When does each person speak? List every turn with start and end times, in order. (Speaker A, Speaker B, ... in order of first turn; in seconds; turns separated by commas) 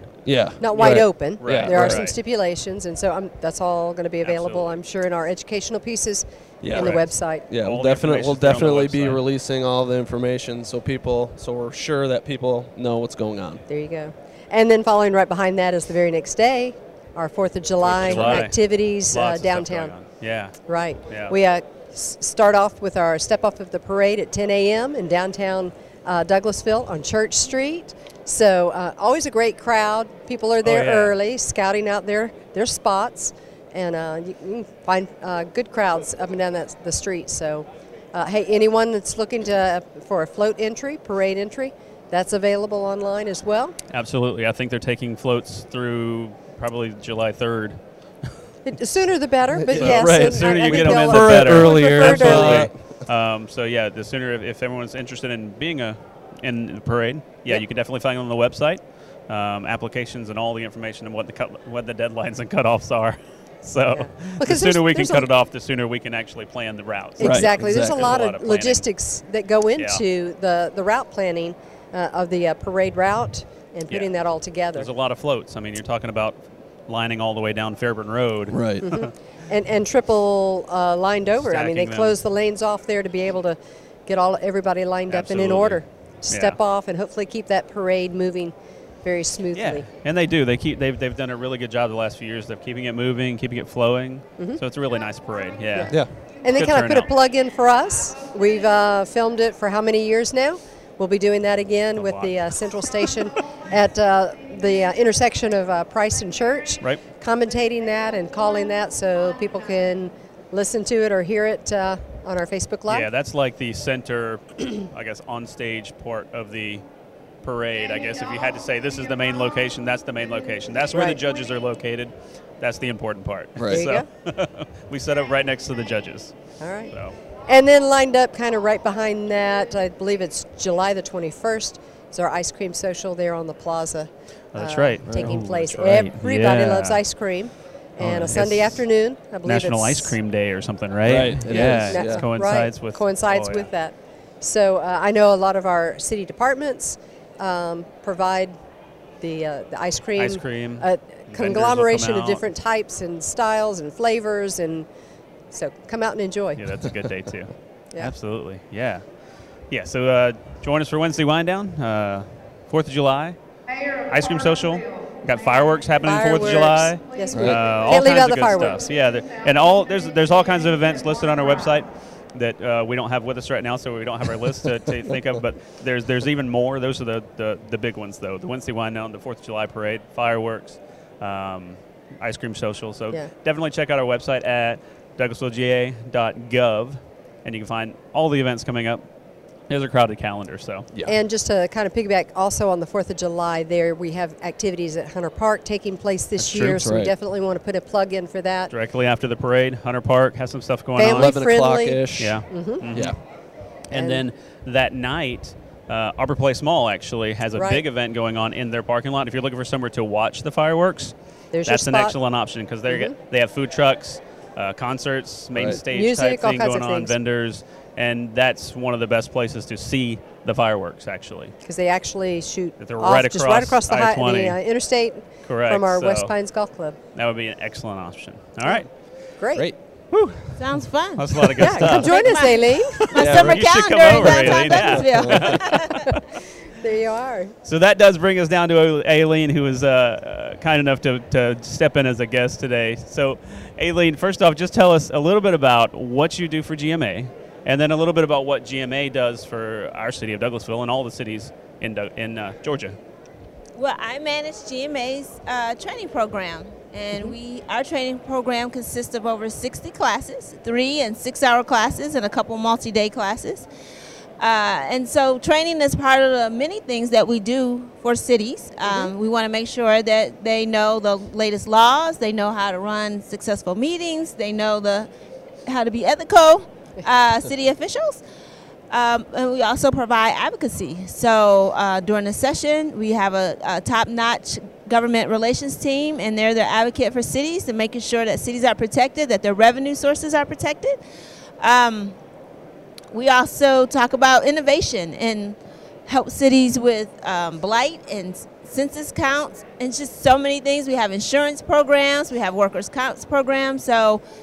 Speaker A: 0.2-2.1, Speaker B: 0.6-7.5, Speaker C: 0.7-2.2, Speaker C: 4.2-4.7, Speaker A: 6.6-13.6, Speaker C: 6.7-9.2, Speaker B: 13.7-19.9, Speaker C: 17.8-21.4, Speaker A: 18.1-18.4, Speaker B: 20.7-43.8, Speaker C: 30.6-31.2, Speaker C: 43.9-47.8, Speaker B: 48.6-52.7, Speaker A: 49.5-52.8, Speaker C: 49.7-68.9, Speaker B: 63.9-65.3, Speaker B: 67.2-74.9, Speaker A: 67.2-68.1, Speaker C: 69.8-70.0, Speaker C: 74.8-79.1, Speaker A: 78.5-78.9, Speaker B: 78.8-89.9, Speaker C: 81.4-82.2, Speaker C: 85.1-86.6, Speaker C: 89.5-96.0, Speaker B: 95.7-113.1, Speaker C: 96.5-97.1, Speaker C: 102.0-102.6, Speaker C: 112.9-116.8, Speaker C: 117.4-127.2, Speaker B: 120.9-121.2, Speaker A: 123.6-123.9, Speaker B: 123.7-124.1, Speaker B: 126.6-126.9, Speaker B: 127.5-140.2, Speaker C: 134.5-137.0, Speaker A: 135.1-135.4, Speaker A: 138.0-138.8, Speaker C: 139.4-143.7, Speaker A: 141.0-142.3, Speaker B: 141.5-148.5, Speaker B: 149.2-154.9, Speaker C: 150.2-152.4, Speaker B: 155.5-156.6, Speaker C: 156.6-159.0, Speaker C: 159.7-163.4, Speaker C: 164.1-189.0, Speaker B: 166.0-168.8, Speaker A: 167.3-167.7, Speaker C: 189.7-190.9, Speaker B: 191.1-198.7, Speaker C: 196.4-196.8, Speaker A: 196.7-197.2, Speaker C: 198.7-201.4, Speaker B: 201.0-202.8, Speaker A: 201.1-203.2, Speaker C: 202.2-203.2, Speaker C: 203.9-211.1, Speaker B: 203.9-204.2, Speaker B: 207.5-207.8, Speaker B: 211.5-212.2, Speaker C: 211.7-221.5, Speaker B: 212.9-213.2, Speaker A: 215.6-215.8, Speaker B: 215.7-217.2, Speaker B: 221.6-227.0, Speaker C: 222.8-224.6, Speaker C: 225.5-226.3, Speaker C: 227.2-228.9, Speaker B: 229.4-229.7, Speaker C: 230.1-230.5, Speaker D: 230.6-236.0, Speaker C: 231.2-232.2, Speaker B: 231.6-233.3, Speaker A: 233.2-235.6, Speaker C: 233.2-236.2, Speaker B: 236.8-237.5, Speaker C: 237.7-253.0, Speaker D: 253.8-263.7, Speaker D: 264.4-275.1, Speaker B: 268.9-269.1, Speaker D: 275.7-278.2, Speaker D: 278.9-291.0, Speaker D: 291.6-292.1, Speaker D: 293.1-304.2